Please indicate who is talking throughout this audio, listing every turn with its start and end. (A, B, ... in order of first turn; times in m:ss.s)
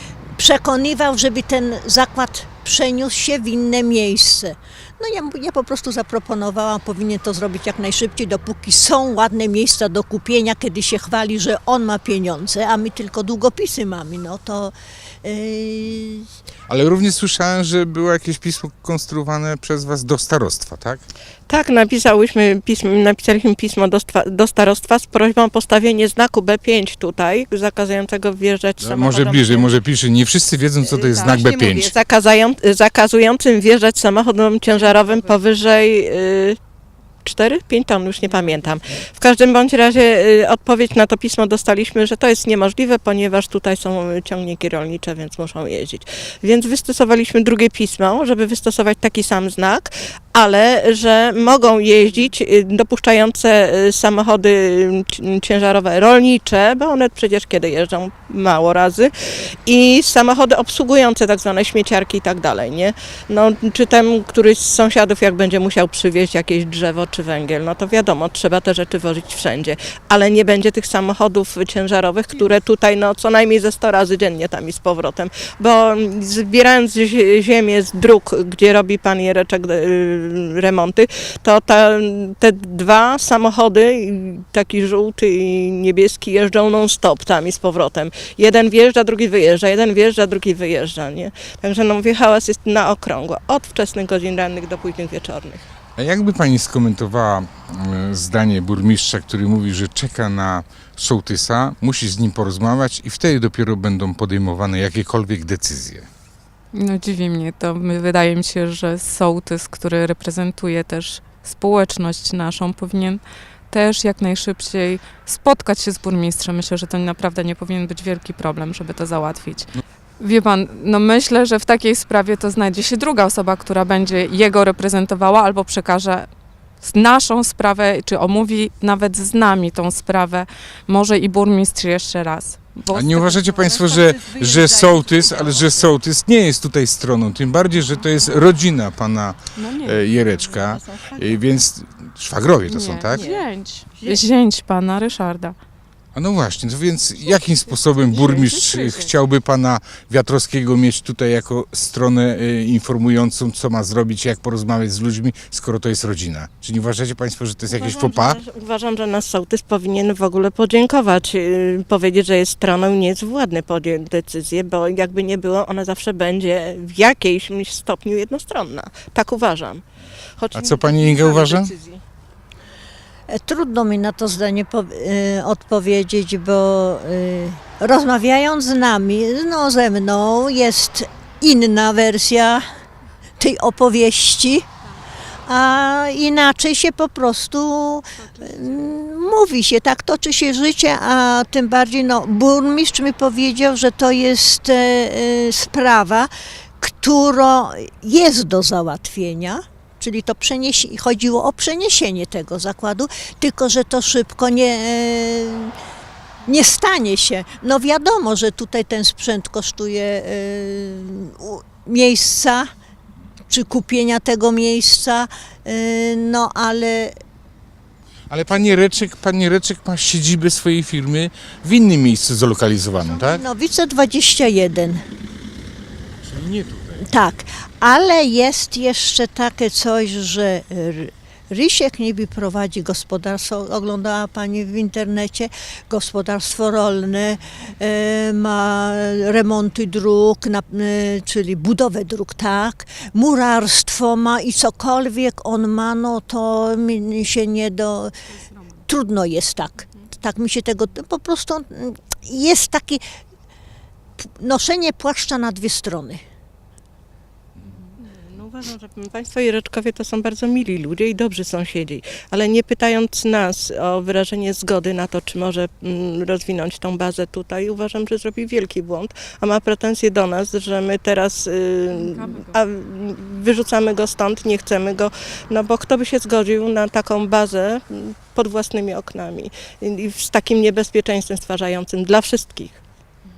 0:00.4-0:14.7 A
0:15.2-0:16.3 A
0:16.7-0:21.0 B
0:21.5-0:29.7 C
0:28.8-0:31.9 B
0:30.8-0:36.6 C
0:37.2-1:35.6 C
1:36.0-1:46.1 B
1:46.7-2:06.3 D
2:06.8-2:13.6 D
2:12.9-2:23.2 B
2:13.6-2:15.9 C
2:19.5-2:20.0 D
2:20.4-2:21.4 C
2:22.6-2:25.6 D
2:23.1-2:24.2 C
2:26.1-2:38.4 B
2:27.7-2:29.1 D
2:37.7-2:49.8 C
2:50.4-2:52.0 C
2:50.5-2:51.7 B
2:53.3-3:02.6 A
3:03.4-3:04.7 A
3:05.4-3:25.7 A
3:08.2-3:08.8 D
3:26.4-3:32.6 A
3:33.5-3:37.1 A
3:38.3-3:43.4 B
3:43.0-3:45.0 A
3:46.2-3:47.0 B
3:47.0-4:08.1 A
4:08.9-4:13.0 A
4:14.2-4:16.2 A
4:18.0-4:42.8 C
4:31.9-4:32.6 D